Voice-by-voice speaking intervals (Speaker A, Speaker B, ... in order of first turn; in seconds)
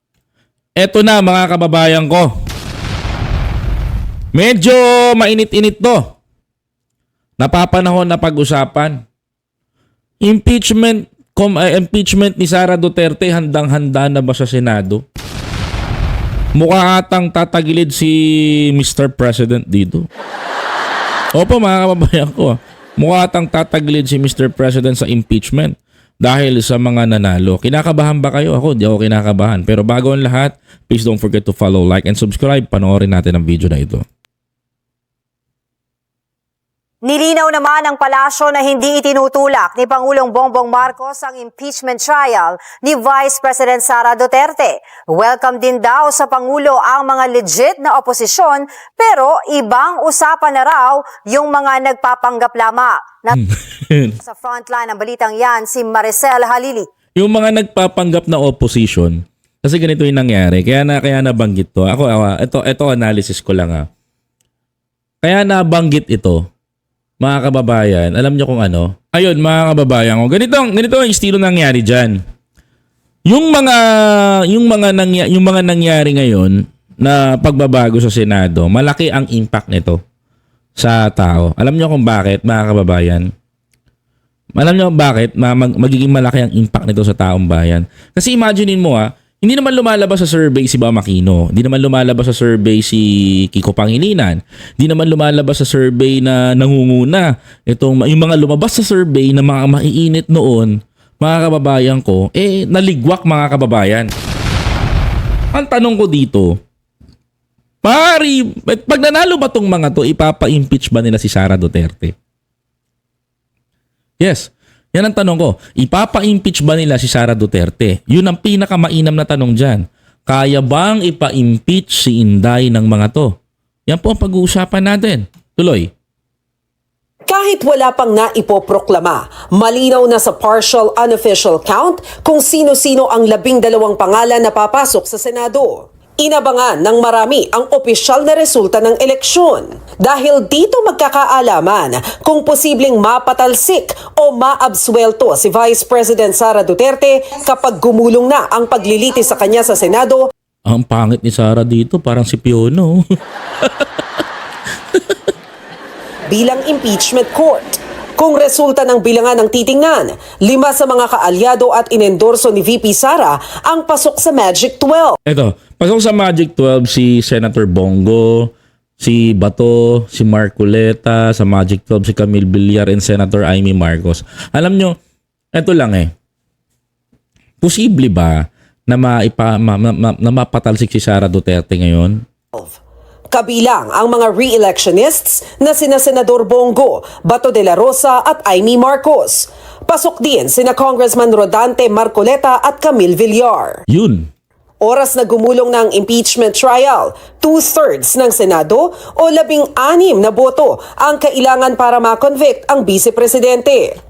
Speaker A: 0.8-2.3, 4.3-6.2, 7.4-9.0, 10.2-15.0, 16.6-20.1, 21.3-34.0, 53.4-54.2, 57.2-63.9, 65.2-66.4, 67.2-72.2, 73.3-80.0, 80.8-83.3, 84.6-104.1, 105.5-106.6, 107.8-112.1, 114.2-123.3, 123.9-125.9, 150.7-153.0, 153.6-153.9, 165.3-174.9, 175.6-176.1, 177.6-178.4, 178.9-182.2, 193.9-194.3
Speaker B: 37.0-53.3, 54.2-56.9
Speaker C: 127.3-150.2, 156.3-165.2, 183.3-193.8, 194.8-203.9